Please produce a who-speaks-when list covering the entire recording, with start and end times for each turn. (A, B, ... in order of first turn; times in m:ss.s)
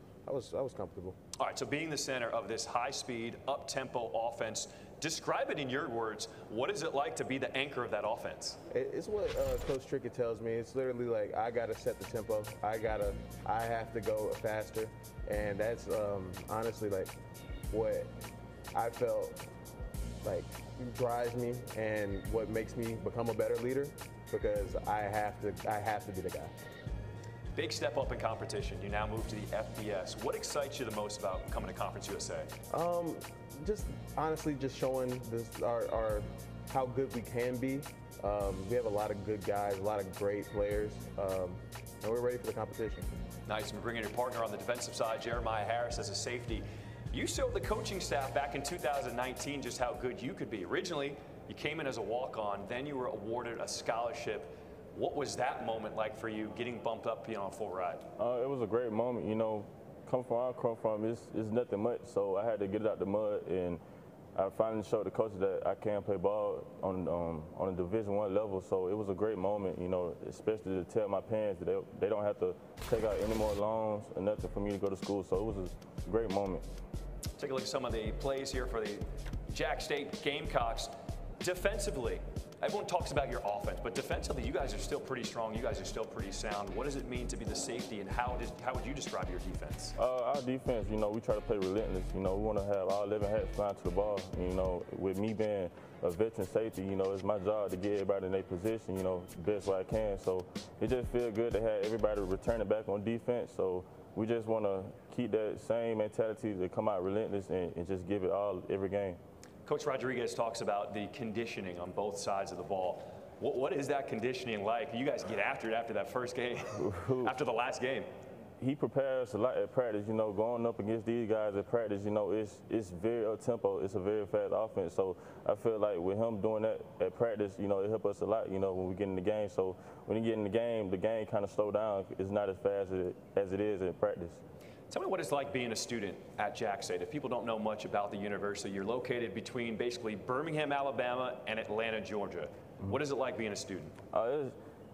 0:00.3-0:01.2 A
0:01.4-0:08.6 B
0:08.7-0:17.1 A
0:17.7-0:18.1 A
0:18.7-0:19.4 A
0:20.2-0:26.5 A
0:27.6-0:32.5 B
0:32.7-0:43.1 A
0:43.5-0:58.1 B
0:58.2-1:03.8 C
1:04.4-1:16.6 C
1:17.4-1:30.0 B
1:30.0-1:49.2 C
1:49.7-1:58.1 B
1:56.7-1:57.3 C
1:58.6-2:14.4 C
2:14.9-2:23.9 B
2:24.1-2:24.5 C